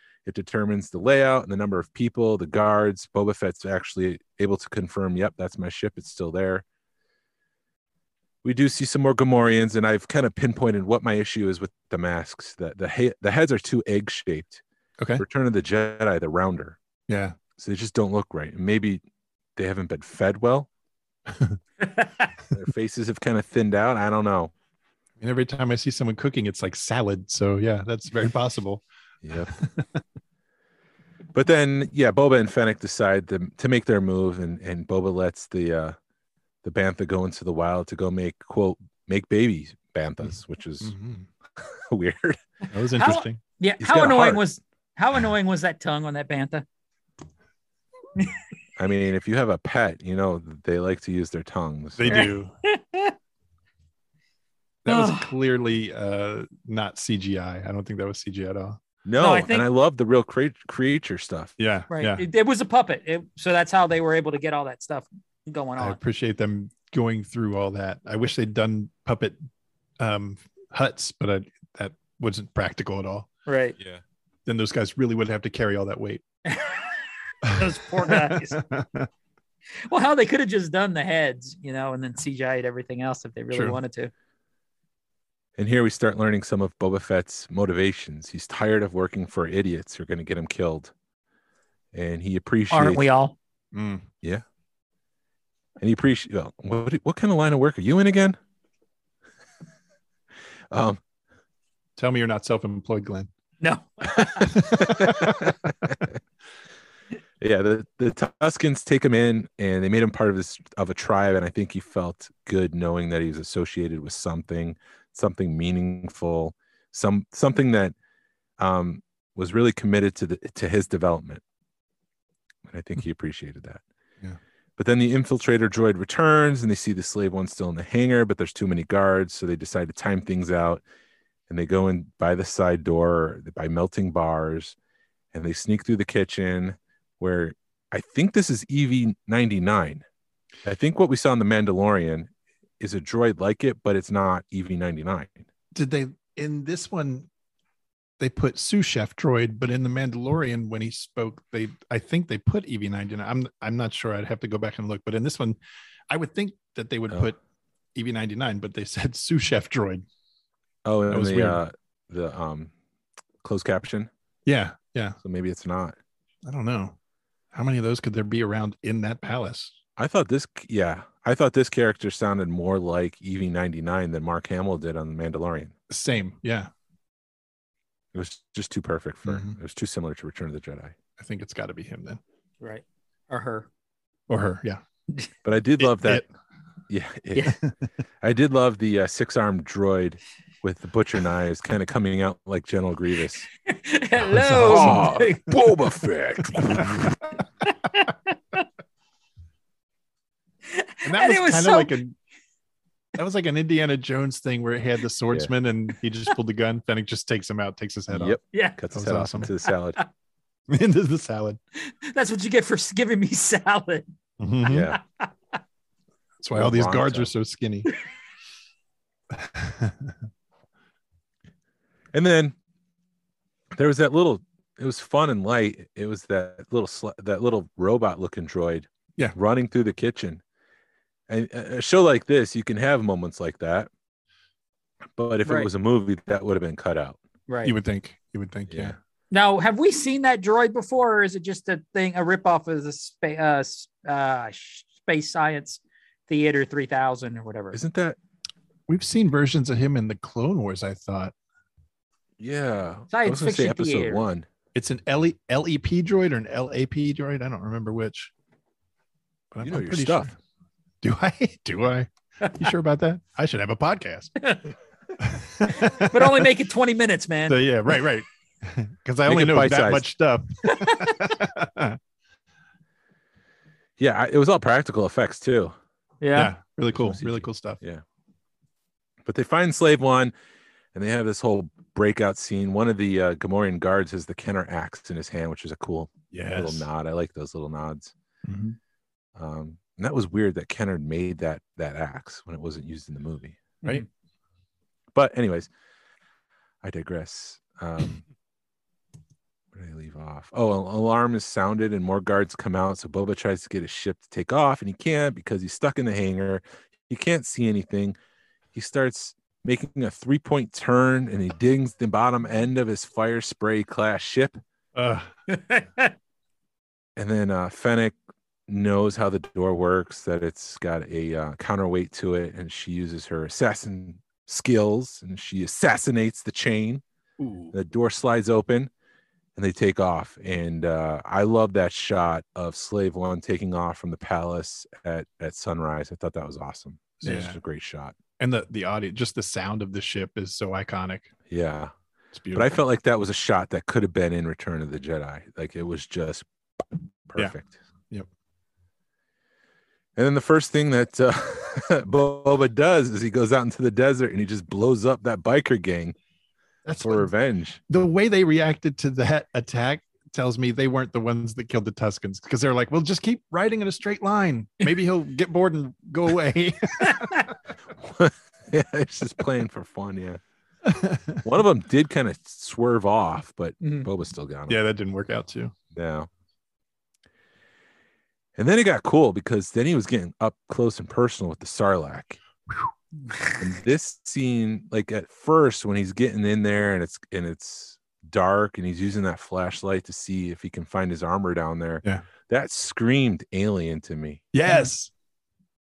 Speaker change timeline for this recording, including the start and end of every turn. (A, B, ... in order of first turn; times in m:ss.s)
0:00.2-0:06.6 A
0:08.4-0:14.6 A
0:15.2-0:16.8 A
0:17.1-0:17.4 B
0:17.6-0:19.0 A
0:19.6-0:20.7 A
0:21.3-0:21.6 B
0:21.8-0:22.1 C
0:22.5-0:24.5 A
0:25.2-0:28.8 B
0:29.2-0:29.6 A
0:29.4-0:30.0 B
0:31.3-0:35.9 A
0:36.6-0:40.9 A
0:40.2-0:41.3 B
0:41.6-0:42.4 A
0:42.7-0:43.4 B
0:43.0-0:46.6 C
0:43.8-0:44.4 A
0:48.8-0:52.3 A
0:52.0-0:52.5 B
0:52.1-0:53.1 C
0:54.8-0:58.8 B
0:54.9-0:55.3 C
0:59.0-1:01.5 A
0:59.2-0:59.6 C
1:01.6-1:02.2 B
1:01.9-1:06.0 C
1:05.8-1:09.4 B
1:10.0-1:13.3 B
1:13.5-1:13.8 C
1:14.4-1:16.2 B
1:16.4-1:18.6 C
1:17.4-1:19.1 B
1:19.9-1:24.1 C
1:23.5-1:23.8 B
1:25.6-1:30.9 A
1:31.9-1:33.0 A
1:32.7-1:33.3 C
1:33.7-1:34.1 B
1:35.8-1:38.4 A
1:40.7-1:41.0 A
1:42.0-1:43.3 B
1:43.6-1:44.6 C
1:44.5-1:45.5 B
1:44.5-1:46.0 A
1:47.4-1:57.9 A
1:58.6-2:01.4 A
2:02.7-2:03.8 A
2:04.8-2:10.8 A
2:11.5-2:14.7 A
2:15.3-2:20.0 A
2:20.6-2:22.3 A
2:22.8-2:25.4 A
2:25.7-2:27.3 B
2:28.2-2:35.6 B
2:36.1-2:37.4 B
2:37.9-2:40.0 B
2:40.8-2:42.7 A
2:41.1-2:41.6 B
2:43.4-2:44.1 A
2:44.4-2:45.2 B
2:45.2-2:45.9 A
2:46.4-2:47.0 B
2:47.5-2:49.7 B
2:50.0-2:55.7 A
2:55.9-2:56.7 B
2:58.1-3:00.9 A
2:59.2-2:59.5 B
3:01.2-3:02.2 B
3:02.6-3:03.7 C
3:04.3-3:04.8 B
3:05.4-3:06.2 A
3:05.8-3:06.2 B
3:06.9-3:07.6 A
3:07.4-3:07.7 B
3:08.2-3:13.5 A
3:13.6-3:15.5 C
3:14.2-3:15.1 B
3:14.6-3:17.1 A
3:16.7-3:17.1 B
3:17.6-3:18.6 C
3:20.7-3:21.9 C
3:21.0-3:22.2 B
3:23.1-3:28.4 B
3:28.1-3:30.0 A
3:28.5-3:28.8 C
3:28.9-3:29.5 B
3:30.7-3:31.6 B
3:31.8-3:34.0 C
3:34.4-3:34.9 B
3:34.6-3:35.0 A
3:34.6-3:35.3 C
3:36.4-3:37.9 B
3:36.5-3:37.3 A
3:39.3-3:40.2 B
3:42.1-3:42.5 A
3:43.7-3:50.4 A
3:51.3-3:53.9 A
3:55.2-3:57.2 A
3:57.5-3:57.8 C
3:57.6-3:59.0 B
3:58.7-3:59.0 A
3:59.3-4:07.8 C
4:07.7-4:08.2 A
4:08.9-4:11.3 B
4:12.4-4:14.4 A
4:13.1-4:14.2 C
4:14.7-4:18.3 B
4:19.5-4:20.3 B
4:19.6-4:20.3 A
4:21.0-4:24.3 B
4:24.4-4:24.7 C
4:25.2-4:26.5 B
4:25.9-4:27.6 C
4:27.5-4:32.0 B
4:29.2-4:30.0 A
4:30.6-4:31.2 C
4:34.0-4:35.7 A
4:36.2-4:36.5 C
4:36.3-4:37.8 B
4:36.9-4:38.0 A
4:39.2-4:40.3 A
4:40.9-4:48.1 A
4:46.3-4:46.9 B
4:48.4-4:48.8 B
4:49.4-4:53.6 A
4:55.1-4:55.7 A
4:56.8-4:58.2 A
4:59.7-5:08.2 A
5:08.7-5:14.6 A
5:14.9-5:15.3 B
5:15.5-5:16.1 C
5:17.2-5:18.1 A
5:18.7-5:27.0 A
5:27.4-5:27.7 B
5:27.7-5:28.9 A
5:29.6-5:38.1 A
5:37.2-5:37.6 B
5:38.4-5:41.3 B
5:41.5-5:41.9 A
5:42.3-5:42.7 B
5:42.5-5:47.8 A
5:50.2-5:56.1 A
5:56.8-5:57.3 B
5:57.0-5:57.8 A
5:57.9-6:07.5 B
6:07.0-6:07.5 C
6:08.0-6:10.4 A
6:10.8-6:11.4 B
6:11.4-6:14.8 A
6:13.8-6:14.1 C
6:14.7-6:15.7 B
6:15.9-6:16.3 A
6:18.6-6:22.4 A
6:23.5-6:34.4 A
6:34.5-6:35.1 B